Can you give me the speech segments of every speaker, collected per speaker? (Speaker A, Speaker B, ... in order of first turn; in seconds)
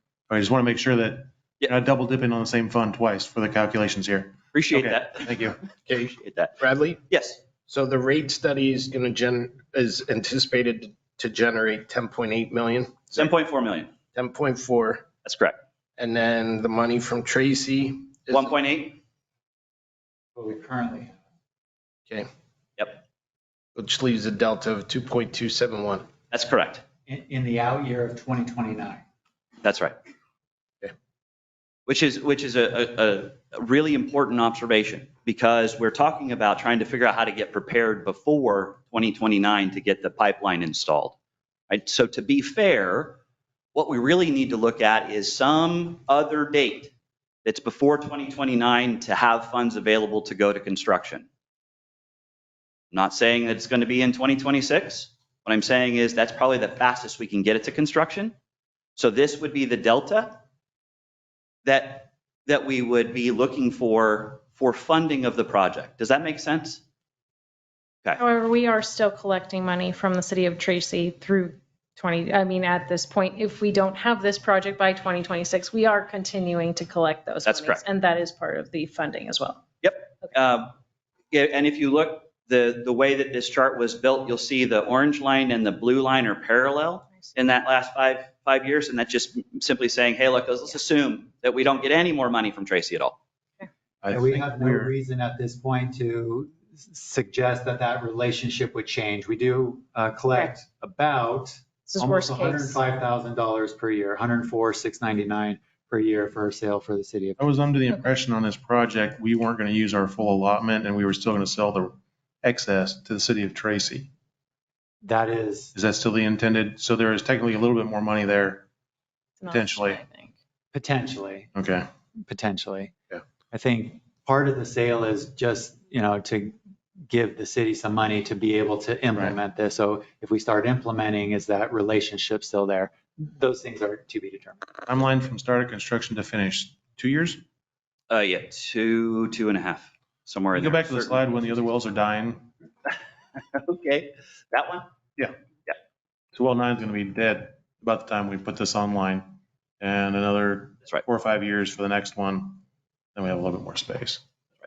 Speaker A: 0.3-5.6, 94.0-94.9, 107.4-114.1, 115.7-118.7, 119.5-120.0, 121.5-121.8, 134.9-137.4, 140.6-142.5, 146.3-152.6, 153.1-154.2
Speaker B: 4.5-5.4, 6.1-6.5, 7.1-7.4, 13.1-13.9, 15.2-15.6, 18.3-19.0, 26.3-26.8, 29.6-29.9, 31.9-41.1, 41.7-43.2, 43.7-46.9, 47.4-51.3, 52.9-58.3, 59.0-60.4, 61.6-66.8, 77.5-77.8, 79.8-80.7, 81.3-93.2, 138.1-141.2, 143.5-144.9
Speaker C: 5.9-7.0, 7.7-13.3, 14.1-15.1, 16.0-18.5, 23.8-26.1
Speaker D: 20.4-21.2, 27.1-29.0, 94.1-107.4, 115.0-115.7, 120.7-121.5, 122.2-122.9, 123.5-126.6, 127.1-134.6
Speaker E: 68.2-79.6, 101.8-102.8, 119.4-120.3